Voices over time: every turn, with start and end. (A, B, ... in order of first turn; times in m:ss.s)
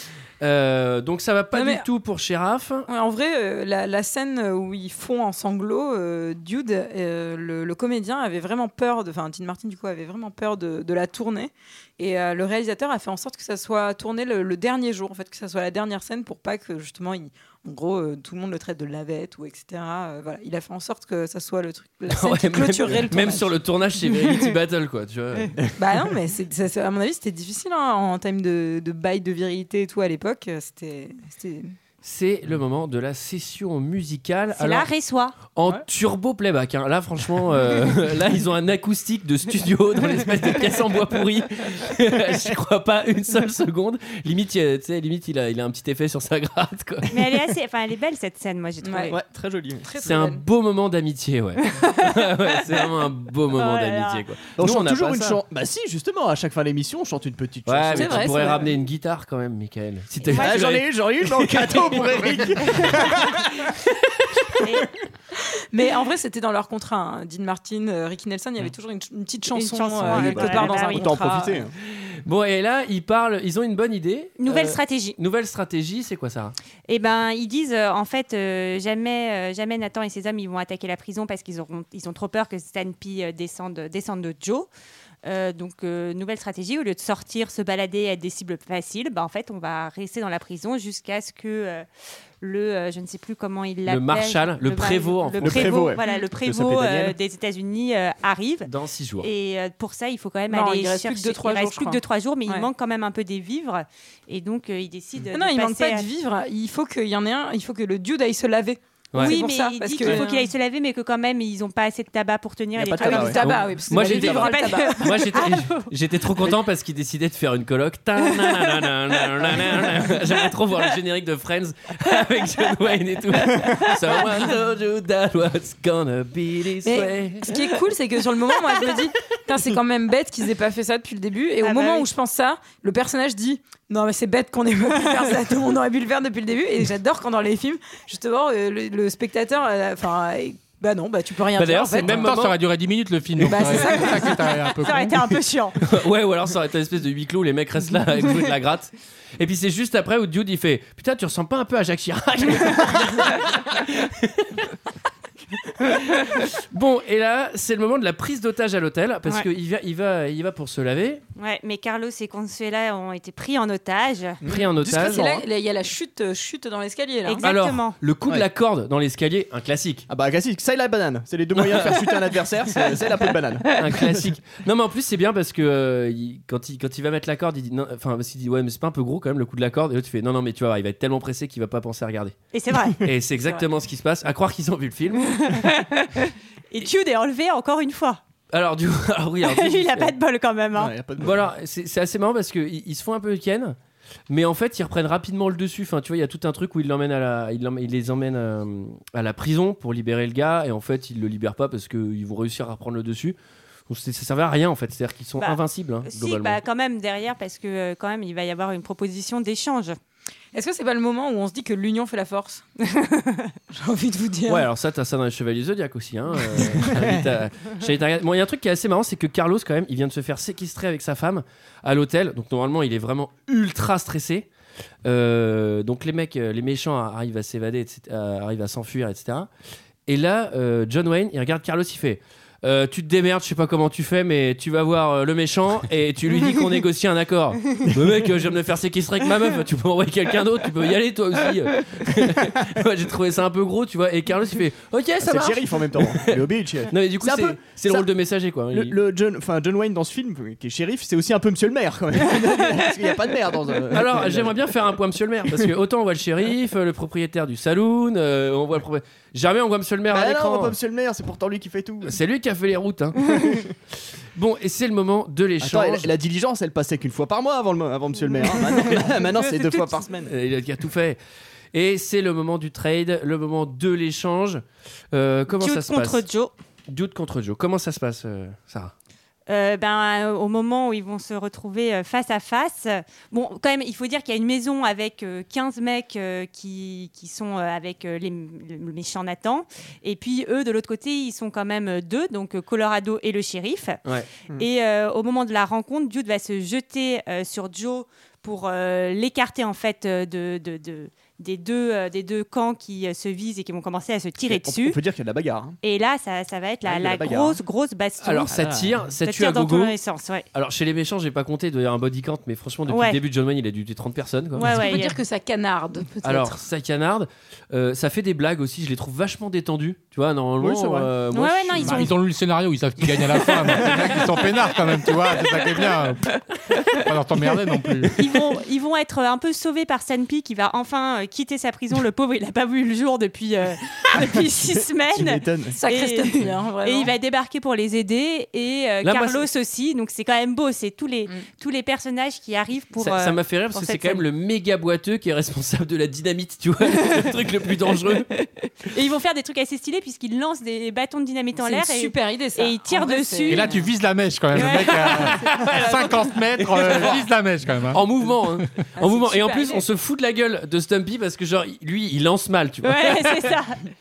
0:00.4-0:02.9 A
0:01.5-0:01.8 B
0:02.9-0:23.5 B
0:22.1-0:25.6 A
0:25.8-0:31.7 B
0:32.0-0:34.9 A
0:34.5-0:35.4 C
0:35.5-0:47.1 A
0:47.1-0:49.2 C
0:48.8-0:49.2 B
0:49.1-0:49.9 D
0:49.8-0:50.4 B
0:50.0-0:55.4 A
0:53.6-0:54.2 C
0:54.6-0:58.6 D
0:57.7-1:03.3 A
0:57.9-0:58.7 B
1:00.3-1:00.7 C
1:00.3-1:03.7 D
1:04.6-1:04.9 C
1:05.7-1:11.6 B
1:09.5-1:11.2 C
1:10.0-1:11.7 D
1:11.9-1:16.6 A
1:14.4-1:15.2 C
1:16.9-1:24.7 C
1:25.2-1:31.8 C
1:32.4-1:38.7 C
1:33.9-1:35.9 A
1:35.4-1:37.2 D
1:38.7-1:39.3 A
1:39.2-1:46.1 C
1:40.5-1:42.7 B
1:45.3-1:50.5 B
1:49.1-1:49.4 A
1:49.2-1:55.9 C
1:52.8-1:53.4 D
1:53.0-1:55.3 B
1:53.4-2:07.5 A
2:06.8-2:22.3 B
2:11.6-2:12.1 C
2:21.6-2:22.6 A
2:22.0-2:25.3 E
2:23.4-2:24.6 B
2:24.8-2:25.8 C
2:25.8-2:34.6 A
2:35.8-2:41.2 A
2:41.4-2:44.4 C
2:44.4-2:45.4 D
2:44.5-2:45.3 A
2:45.0-2:47.4 B
2:47.3-2:48.0 C
2:47.4-2:50.1 A
2:50.1-2:54.3 D
2:51.6-2:52.1 A
2:53.7-3:02.4 A
3:02.5-3:03.0 C
3:03.0-3:05.5 A
3:05.4-3:08.2 C
3:08.5-3:10.2 A
3:09.4-3:10.9 C
3:10.7-3:11.5 D
3:11.2-3:13.8 A
3:14.3-3:23.4 A
3:23.9-3:26.6 A
3:25.4-3:30.0 C
3:30.5-3:32.6 B
3:32.8-3:33.6 C
3:33.7-3:34.7 B
3:34.5-3:44.5 A
3:36.8-3:37.2 D
3:45.0-3:49.5 A
3:50.1-4:09.0 A
3:57.8-3:58.3 D
4:05.2-4:08.1 D
4:08.7-4:14.6 D
4:13.9-4:20.8 A
4:20.1-4:22.2 D
4:22.0-4:23.4 A
4:24.4-4:26.1 A
4:25.6-4:30.3 D
4:30.3-4:31.2 A
4:31.7-4:36.2 A
4:35.6-4:36.5 C
4:36.9-4:38.9 A
4:39.5-4:54.0 C
4:54.6-5:05.0 C
5:04.4-5:05.8 D
5:05.8-5:10.5 C
5:06.8-5:07.6 D
5:08.2-5:10.0 A
5:10.5-5:14.7 A
5:12.9-5:13.2 C
5:14.6-5:15.2 C
5:14.6-5:16.6 B
5:16.2-5:22.1 A
5:20.6-5:21.1 D
5:21.3-5:22.1 C
5:21.8-5:26.3 E
5:26.9-5:28.2 E
5:28.2-5:44.2 C
5:34.2-5:35.8 D
5:35.7-5:37.1 B
5:39.0-5:39.4 A
5:43.0-5:48.3 A
5:48.9-5:53.8 C
5:51.6-5:53.9 B
5:53.5-5:58.0 E
5:54.5-5:55.4 C
5:55.5-5:57.2 A
5:55.5-5:55.8 B
5:56.9-5:57.1 B
5:57.9-6:03.5 A
5:59.0-5:59.8 B
6:02.8-6:03.8 C